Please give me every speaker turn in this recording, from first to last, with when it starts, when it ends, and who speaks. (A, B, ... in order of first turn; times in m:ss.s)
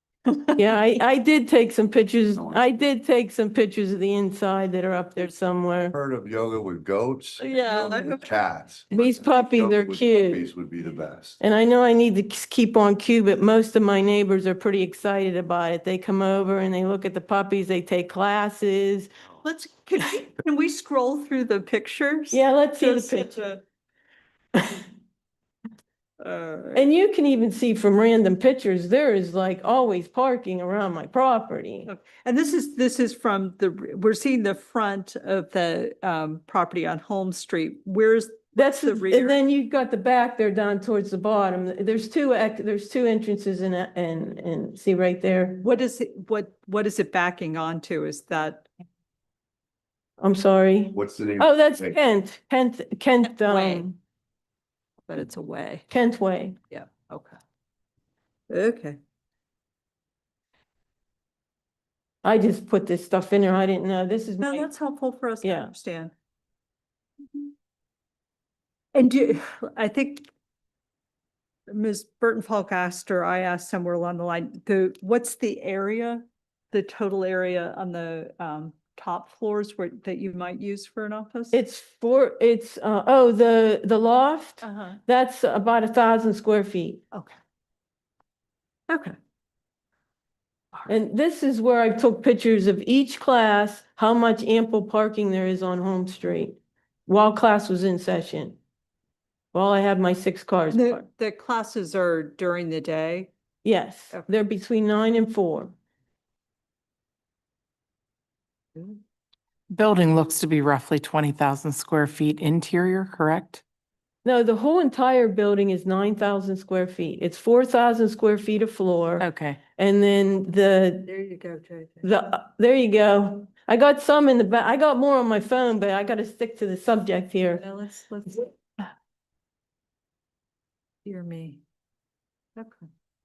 0:00.6-0:05.9 A
0:05.9-0:11.4 B
0:07.4-0:08.4 C
0:08.9-0:10.5 A
0:11.4-0:19.1 A
0:19.4-0:23.6 C
0:22.3-0:23.4 A
0:24.5-0:24.8 A
0:26.2-0:26.9 C
0:26.7-0:31.9 A
0:31.8-0:39.4 C
0:38.6-0:45.6 A
0:45.6-0:48.7 C
0:50.2-0:54.0 A
0:50.9-0:52.0 B
0:53.2-0:53.8 C
0:55.1-0:55.9 C
0:55.9-0:56.6 A
0:56.7-0:57.4 C
0:58.5-0:59.0 C
1:02.2-1:04.7 A
1:04.4-1:06.1 C
1:05.4-1:05.7 A
1:08.9-1:10.3 C
1:11.7-1:21.6 C
1:21.5-1:27.0 A
1:24.6-1:25.0 C
1:28.9-1:29.2 C
1:30.9-1:38.6 A
1:39.5-1:41.0 A
1:40.7-1:43.3 C
1:43.6-1:45.7 A
1:49.7-1:53.6 D
1:54.2-2:01.1 A
1:59.2-1:59.6 D
2:01.0-2:02.1 C
2:02.0-2:07.6 A
2:07.5-2:08.6 C
2:11.0-2:11.6 C
2:12.6-2:12.8 C